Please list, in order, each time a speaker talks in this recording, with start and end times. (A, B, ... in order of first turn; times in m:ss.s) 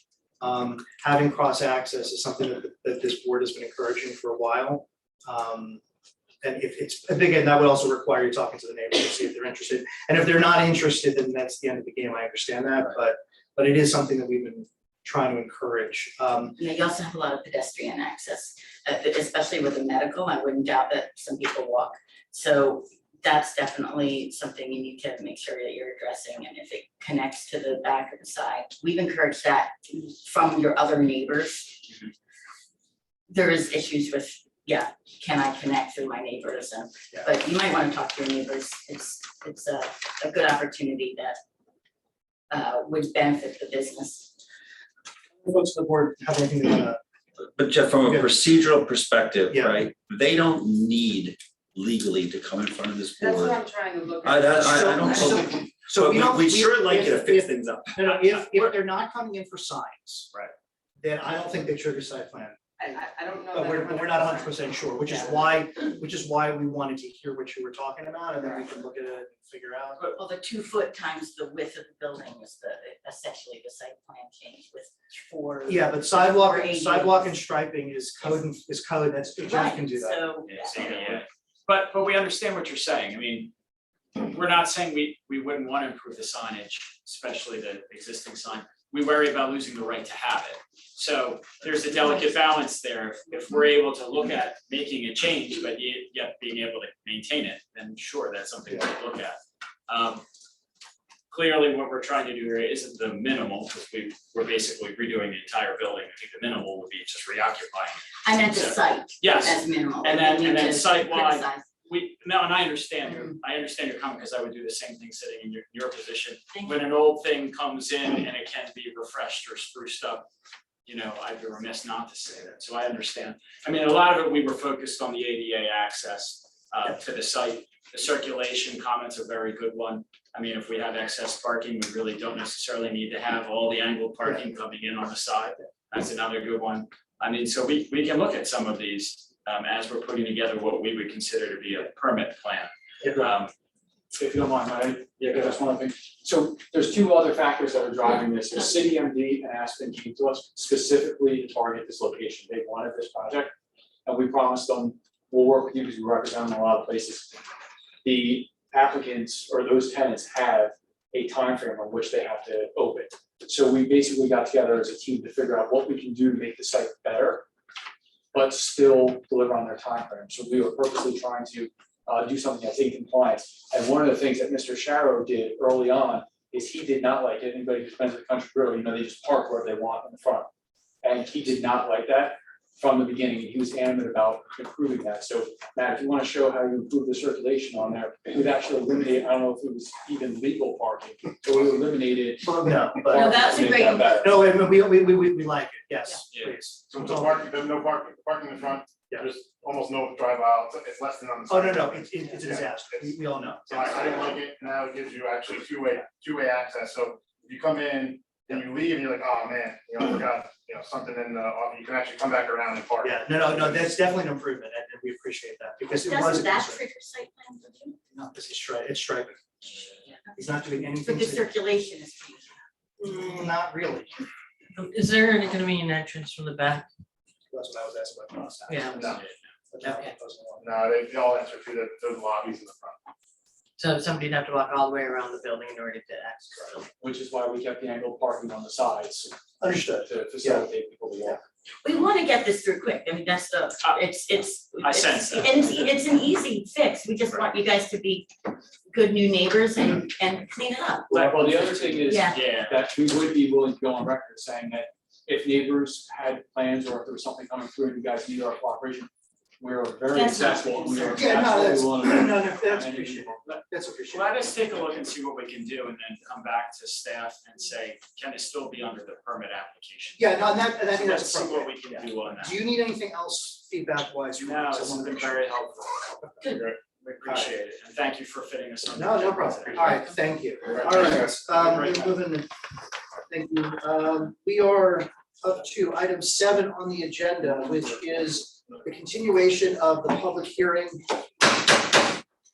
0:00.4-0:05.8 A
0:06.4-0:16.6 A
0:16.6-0:31.8 B
0:33.3-0:41.4 B
0:42.5-0:44.3 B
0:45.4-0:47.0 A
0:47.6-0:53.6 C
0:48.0-0:48.3 A
0:49.5-0:49.8 A
0:53.2-0:55.3 D
0:54.2-0:58.1 C
0:54.5-1:00.3 A
1:01.0-1:02.6 A
1:02.8-1:05.5 D
1:03.5-1:10.0 A
1:08.4-1:08.6 D
1:10.1-1:17.4 B
1:15.6-1:20.3 A
1:19.4-1:21.2 B
1:20.4-1:23.5 E
1:24.2-1:40.2 E
1:41.3-2:00.3 E
1:48.2-1:51.7 B
1:56.5-1:56.8 B
2:00.8-2:23.5 E
2:24.1-2:33.5 F
2:25.2-2:25.6 E
2:34.0-2:37.4 F
2:38.0-2:47.5 F
2:48.3-3:00.5 F
3:01.0-3:14.4 F
3:12.4-3:13.5 A
3:13.1-3:14.2 B
3:14.1-3:17.4 A
3:16.3-3:16.6 E
3:16.9-3:23.2 G
3:21.5-3:24.3 A
3:23.7-3:33.9 G
3:33.0-3:36.8 A
3:35.9-3:38.0 B
3:38.1-3:39.8 A
3:40.3-3:41.5 A
3:41.0-3:42.6 B
3:43.1-3:44.1 A
3:44.7-3:46.9 H
3:47.5-3:50.7 A
3:48.7-3:49.0 H
3:49.0-3:49.4 E
3:49.8-3:50.1 H
3:50.6-3:53.0 G
3:53.8-3:56.9 H
3:57.0-3:59.3 F
3:59.6-4:00.7 A
4:00.0-4:01.4 F
4:01.8-4:08.3 B
4:03.8-4:05.9 E
4:08.9-4:11.1 B
4:11.1-4:12.2 A
4:11.1-4:19.1 F
4:12.0-4:12.4 B
4:12.3-4:12.8 E
4:19.6-4:23.5 F
4:20.1-4:21.6 B
4:21.1-4:24.5 A
4:24.1-4:32.6 E
4:30.2-4:35.4 A
4:34.4-4:40.0 E
4:37.2-4:37.5 A
4:38.9-4:42.5 A
4:40.7-4:41.5 G
4:41.5-4:42.2 E
4:43.3-4:51.2 A